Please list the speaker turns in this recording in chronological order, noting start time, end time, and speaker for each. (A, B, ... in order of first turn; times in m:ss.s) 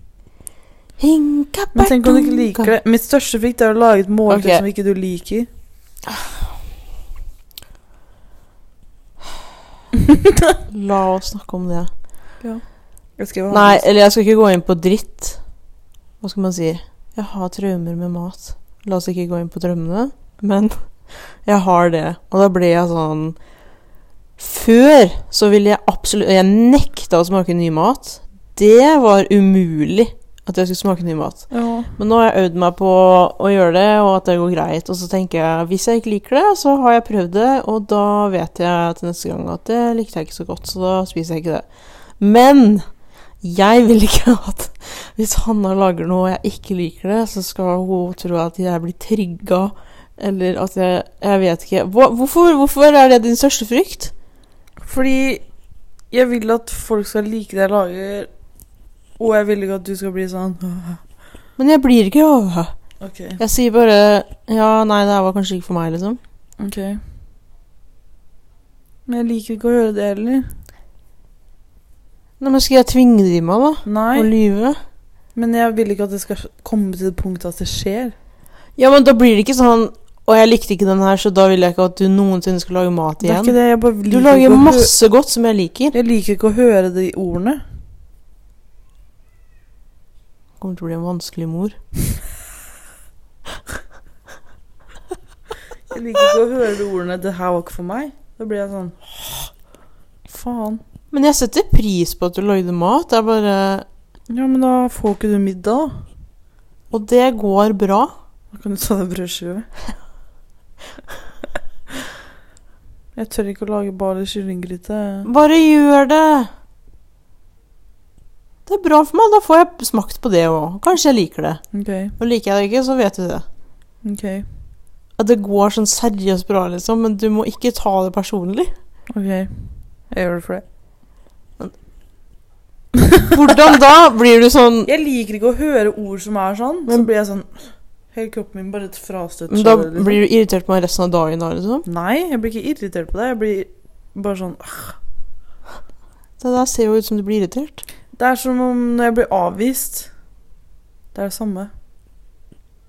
0:01.0-0:02.7 A
0:01.7-0:05.5 B
0:04.3-0:04.6 A
0:10.7-0:11.9 A
0:13.2-0:13.9 B
0:13.5-0:15.4 A
0:16.2-0:23.4 A
0:24.4-0:41.7 A
0:31.5-0:31.9 B
0:42.2-0:42.9 A
0:43.4-0:54.1 A
0:54.8-0:55.4 B
0:56.1-0:58.3 B
0:59.2-1:01.0 B
1:01.6-1:02.7 A
1:03.0-1:03.4 B
1:03.4-1:06.2 A
1:06.6-1:07.0 B
1:09.1-1:10.6 B
1:12.4-1:14.8 A
1:13.8-1:14.3 B
1:15.4-1:18.2 B
1:18.8-1:26.0 A
1:23.2-1:24.9 B
1:25.9-1:27.6 B
1:30.6-1:31.8 A
1:35.9-1:39.5 B
1:40.3-1:40.8 B
1:41.1-1:43.9 A
1:44.3-1:46.0 B
1:46.9-1:48.1 A
1:48.5-1:49.7 B
1:53.2-1:55.3 B
1:55.2-1:56.5 A
1:58.7-2:01.6 A
2:01.7-2:02.2 B
2:02.2-2:03.4 A
2:04.0-2:04.5 B
2:05.2-2:08.7 A
2:09.1-2:10.6 B
2:13.3-2:14.9 A
2:14.9-2:20.2 B
2:19.5-2:21.8 A
2:21.8-2:25.0 B
2:26.4-2:27.8 A
2:28.1-2:30.1 B
2:31.1-2:31.7 B